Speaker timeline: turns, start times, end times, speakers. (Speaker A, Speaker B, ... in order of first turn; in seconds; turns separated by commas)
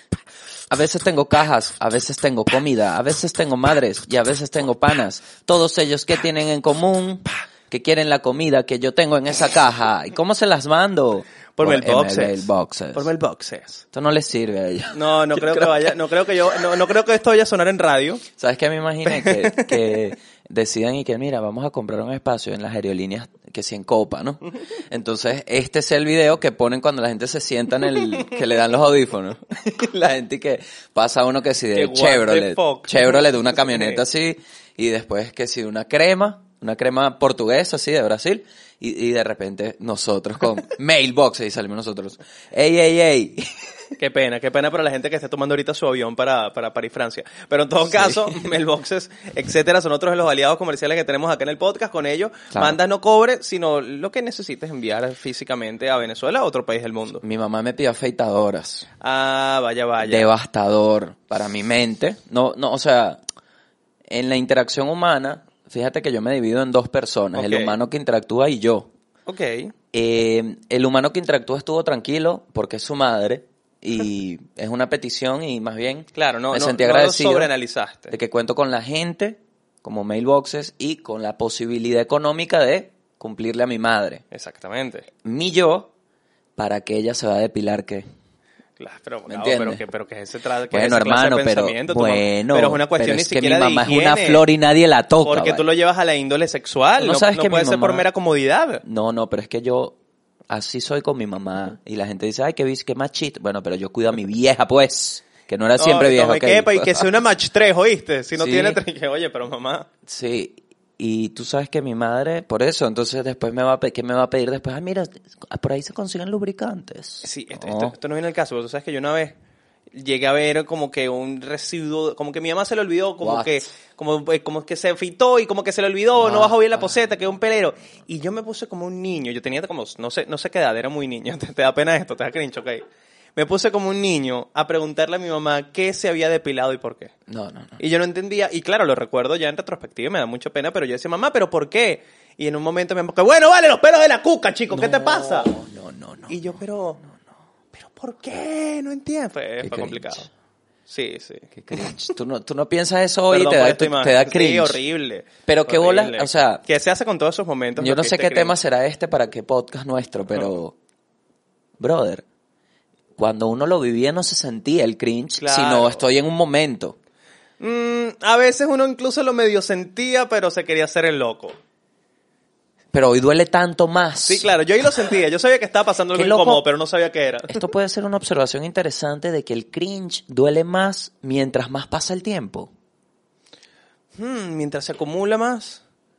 Speaker A: 0.7-13.1, Speaker B: 11.5-13.8, Speaker A: 13.9-15.9, Speaker B: 14.9-18.2, Speaker A: 18.4-43.7, Speaker B: 19.0-20.0, Speaker B: 31.7-34.0, Speaker B: 44.0-57.2, Speaker A: 47.9-48.4, Speaker A: 52.5-52.8, Speaker A: 57.2-58.9, Speaker B: 59.0-60.3, Speaker A: 60.0-63.2, Speaker A: 64.1-68.9, Speaker B: 67.3-67.7, Speaker B: 69.3-69.7, Speaker A: 69.9-77.5, Speaker B: 76.1-78.1, Speaker A: 78.1-84.2, Speaker B: 84.3-85.1, Speaker A: 85.2-85.9, Speaker A: 86.5-88.1, Speaker B: 88.8-94.4, Speaker A: 89.3-89.8, Speaker A: 90.7-95.6, Speaker B: 95.2-98.8, Speaker A: 97.0-98.0, Speaker A: 98.8-99.9, Speaker A: 100.5-107.0, Speaker B: 105.8-109.9, Speaker A: 108.4-108.8, Speaker A: 110.0-117.9, Speaker B: 117.2-119.3, Speaker B: 119.9-132.8, Speaker A: 123.2-123.6, Speaker A: 126.2-126.8, Speaker B: 133.3-137.1, Speaker A: 137.3-137.8, Speaker B: 137.8-145.5, Speaker A: 144.7-147.2, Speaker B: 146.3-147.0, Speaker B: 147.8-150.3, Speaker A: 149.6-150.3, Speaker B: 150.9-151.9, Speaker A: 151.5-154.8, Speaker B: 153.3-158.6, Speaker A: 155.4-156.6, Speaker A: 157.8-160.7, Speaker A: 161.8-162.2, Speaker A: 163.2-167.0, Speaker B: 165.4-166.1, Speaker B: 167.6-171.6, Speaker A: 172.9-174.5, Speaker B: 174.2-177.6, Speaker A: 176.1-176.6, Speaker A: 177.5-182.7, Speaker B: 184.1-185.8